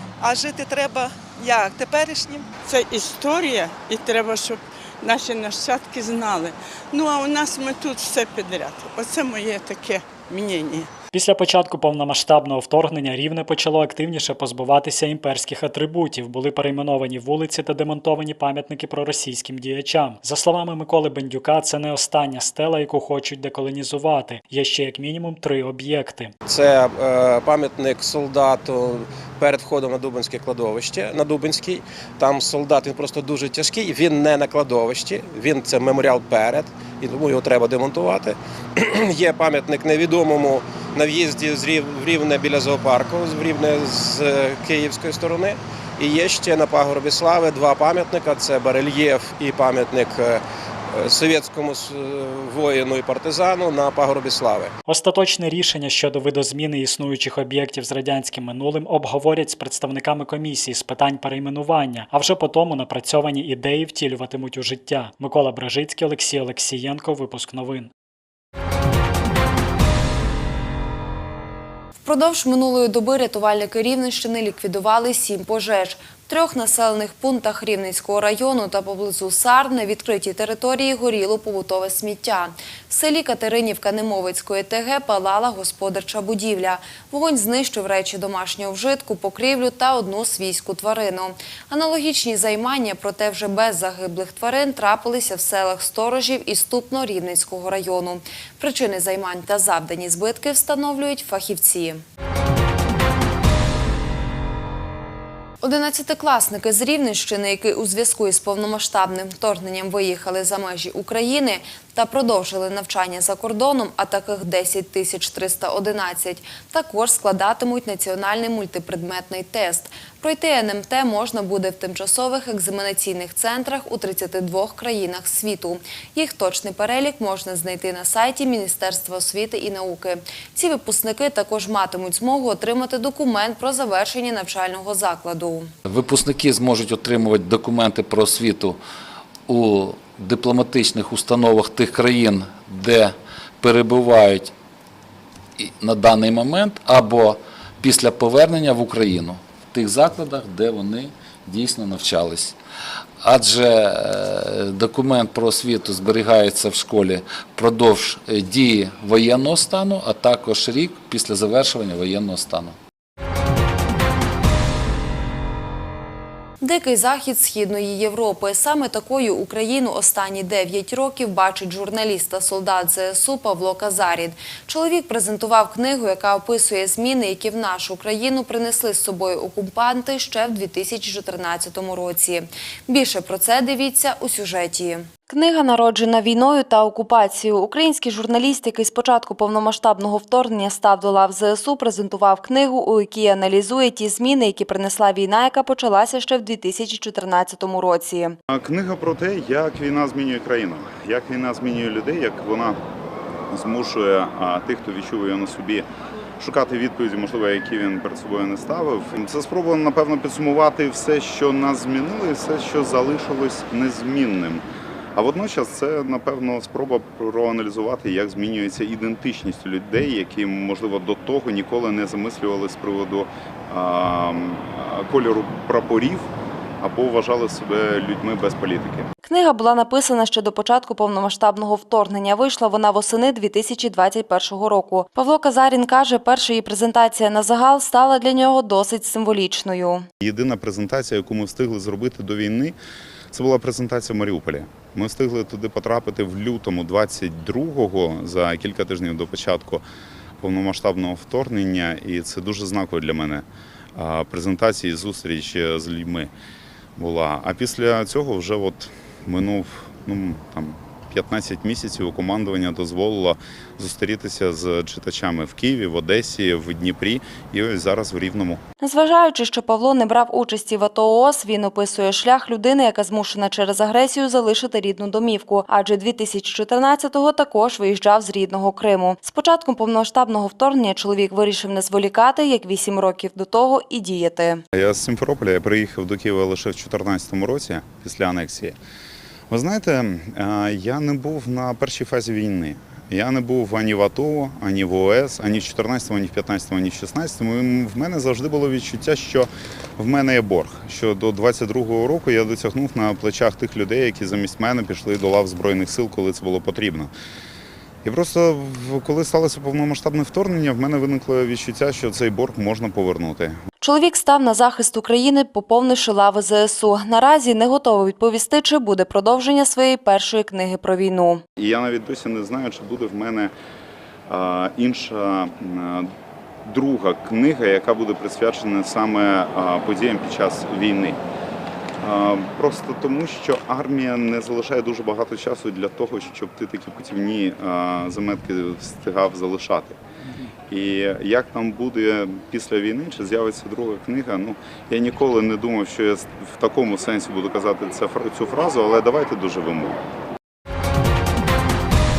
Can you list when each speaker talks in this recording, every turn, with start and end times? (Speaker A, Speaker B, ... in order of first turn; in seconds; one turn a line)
Speaker A: 0.2-2.7
Speaker B: 2.7-10.9
Speaker A: 8.8-9.0
Speaker C: 11.1-26.3
Speaker D: 26.5-54.7
Speaker C: 54.9-67.9
Speaker E: 72.0-102.0
Speaker E: 105.6-135.7
Speaker F: 135.9-138.8
Speaker F: 139.5-144.5
Speaker F: 145.6-152.6
Speaker F: 153.2-162.8
Speaker E: 166.6-198.4
Speaker G: 198.5-202.8
Speaker G: 203.5-205.8
Speaker G: 206.4-214.6
Speaker G: 215.2-226.3
Speaker G: 226.8-229.1
Speaker E: 229.2-240.1
Speaker G: 240.2-242.8
Speaker G: 243.3-249.8
Speaker G: 250.4-253.4
Speaker G: 254.0-256.3
Speaker G: 257.0-268.6
Speaker E: 268.8-284.6
Speaker G: 284.8-288.8
Speaker G: 289.5-307.1
Speaker G: 308.1-313.6
Speaker E: 313.8-321.4
Speaker G: 321.6-323.5
Speaker G: 324.3-326.1
Speaker G: 326.7-331.2
Speaker G: 332.0-340.0
Speaker G: 340.7-350.0